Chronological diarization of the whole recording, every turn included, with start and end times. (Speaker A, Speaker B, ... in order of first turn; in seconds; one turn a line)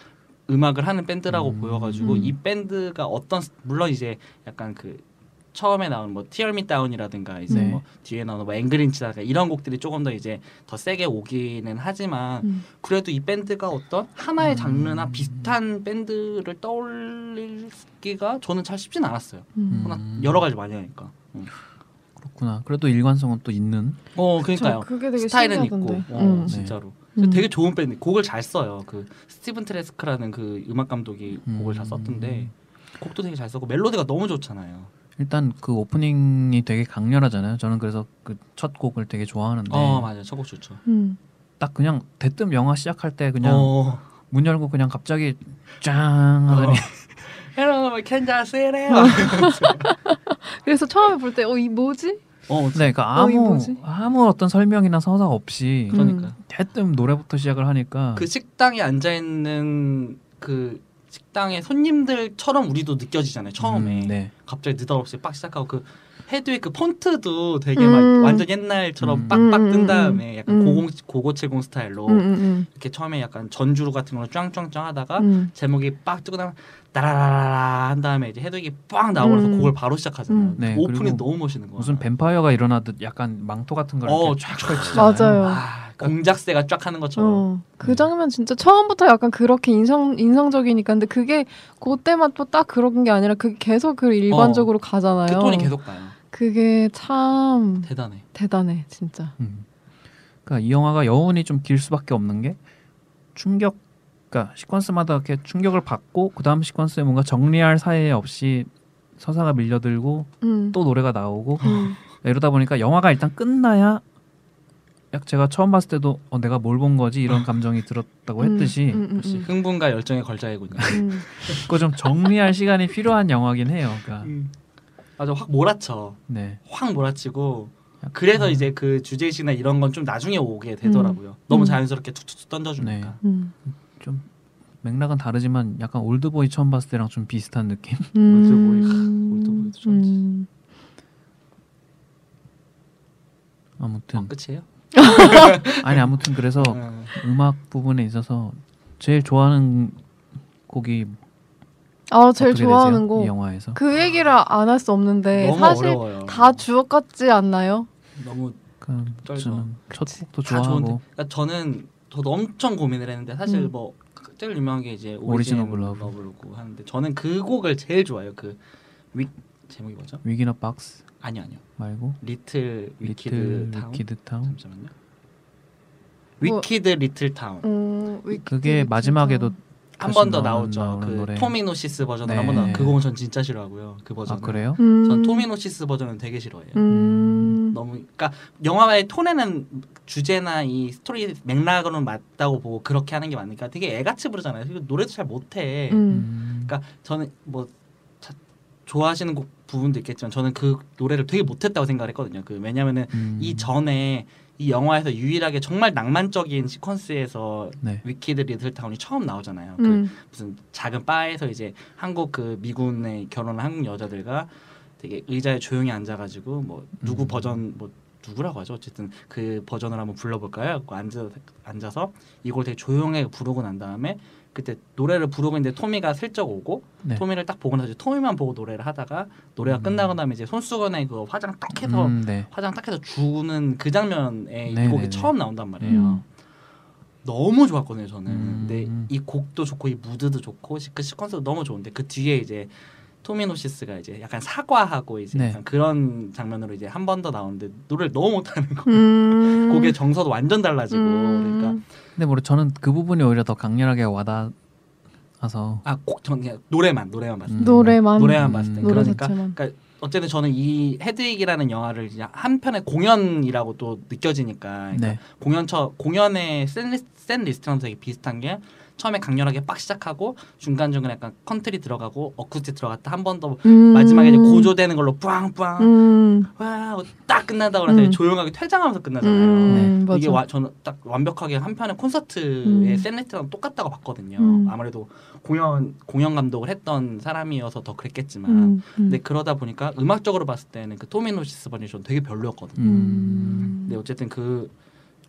Speaker A: 0.5-21.5
Speaker B: 1.3-2.4
Speaker C: 2.0-2.3
Speaker B: 7.5-7.8
Speaker C: 7.5-7.8
Speaker B: 14.4-15.5
Speaker C: 19.6-19.9
Speaker B: 19.7-20.4
Speaker B: 22.2-24.0
Speaker A: 24.1-34.9
Speaker C: 24.6-26.6
Speaker B: 26.5-26.8
Speaker C: 27.2-27.4
Speaker B: 31.4-32.5
Speaker B: 35.2-40.1
Speaker A: 39.7-40.8
Speaker C: 40.9-41.2
Speaker B: 41.6-43.8
Speaker A: 43.4-44.0
Speaker B: 44.3-47.0
Speaker A: 46.5-49.9
Speaker C: 48.9-52.2
Speaker A: 52.5-52.9
Speaker B: 52.7-58.3
Speaker C: 53.1-53.8
Speaker C: 55.9-56.3
Speaker A: 55.9-56.4
Speaker A: 58.2-82.0
Speaker B: 63.6-64.3
Speaker C: 67.8-68.5
Speaker B: 69.0-69.4
Speaker C: 69.3-70.8
Speaker C: 72.1-72.7
Speaker C: 75.2-75.5
Speaker C: 79.2-79.7
Speaker C: 80.3-80.6
Speaker B: 80.6-85.4
Speaker A: 84.0-87.9
Speaker C: 85.0-85.6
Speaker C: 87.2-95.7
Speaker A: 94.3-94.7
Speaker A: 95.2-96.2
Speaker C: 96.3-99.3
Speaker A: 97.8-98.2
Speaker B: 99.4-99.7
Speaker B: 100.5-102.6
Speaker B: 103.3-103.8
Speaker B: 104.3-114.0
Speaker C: 110.4-110.8
Speaker A: 111.6-111.9
Speaker C: 111.6-112.0
Speaker B: 115.1-119.1
Speaker C: 118.4-119.5
Speaker A: 119.2-121.8
Speaker B: 120.8-124.3
Speaker C: 120.9-121.3
Speaker A: 124.2-124.5
Speaker A: 125.2-133.2
Speaker B: 126.3-126.6
Speaker B: 128.0-128.7
Speaker C: 130.8-131.8
Speaker B: 132.8-133.2
Speaker C: 133.2-133.5
Speaker B: 134.0-134.2
Speaker B: 134.8-138.2
Speaker C: 138.2-140.5
Speaker A: 138.3-140.2
Speaker B: 143.8-144.3
Speaker A: 144.2-147.1
Speaker C: 144.9-145.6
Speaker B: 145.5-150.0
Speaker B: 150.7-151.2
Speaker C: 152.1-157.9
Speaker B: 152.4-153.8
Speaker A: 155.3-156.6
Speaker A: 158.2-158.6
Speaker B: 158.8-161.0
Speaker A: 159.2-159.7
Speaker A: 160.4-168.6
Speaker B: 165.3-166.1
Speaker A: 169.1-170.2
Speaker B: 170.2-171.1
Speaker A: 171.2-171.7
Speaker B: 171.8-172.2
Speaker A: 172.2-174.9
Speaker B: 173.0-174.5
Speaker A: 176.4-177.7
Speaker C: 177.6-179.6
Speaker B: 178.3-181.6
Speaker A: 180.0-186.8
Speaker B: 182.2-183.0
Speaker B: 184.3-184.8
Speaker C: 184.8-185.5
Speaker C: 186.8-187.8
Speaker B: 186.9-187.6
Speaker A: 187.7-196.1
Speaker C: 195.9-196.3
Speaker B: 196.1-196.7
Speaker A: 196.7-197.7
Speaker A: 198.2-236.2
Speaker B: 203.1-203.7
Speaker C: 209.8-210.1
Speaker B: 217.0-217.6
Speaker B: 229.7-230.1
Speaker B: 231.8-232.5
Speaker B: 234.7-236.1
Speaker C: 235.8-236.2
Speaker A: 237.2-242.7
Speaker B: 238.3-239.1
Speaker A: 243.2-251.8
Speaker B: 245.3-245.6
Speaker C: 248.9-250.0
Speaker C: 250.9-251.8
Speaker B: 252.2-254.5
Speaker B: 255.4-255.9
Speaker A: 255.8-292.9
Speaker B: 257.5-259.2
Speaker C: 257.6-259.6
Speaker B: 264.9-265.2
Speaker C: 273.6-274.7
Speaker C: 275.8-276.5
Speaker C: 277.9-278.2
Speaker C: 279.2-280.4
Speaker B: 279.7-279.9
Speaker C: 282.6-283.1
Speaker C: 284.4-284.7
Speaker C: 288.5-289.2
Speaker B: 292.8-293.8
Speaker C: 292.8-294.0
Speaker A: 293.7-294.7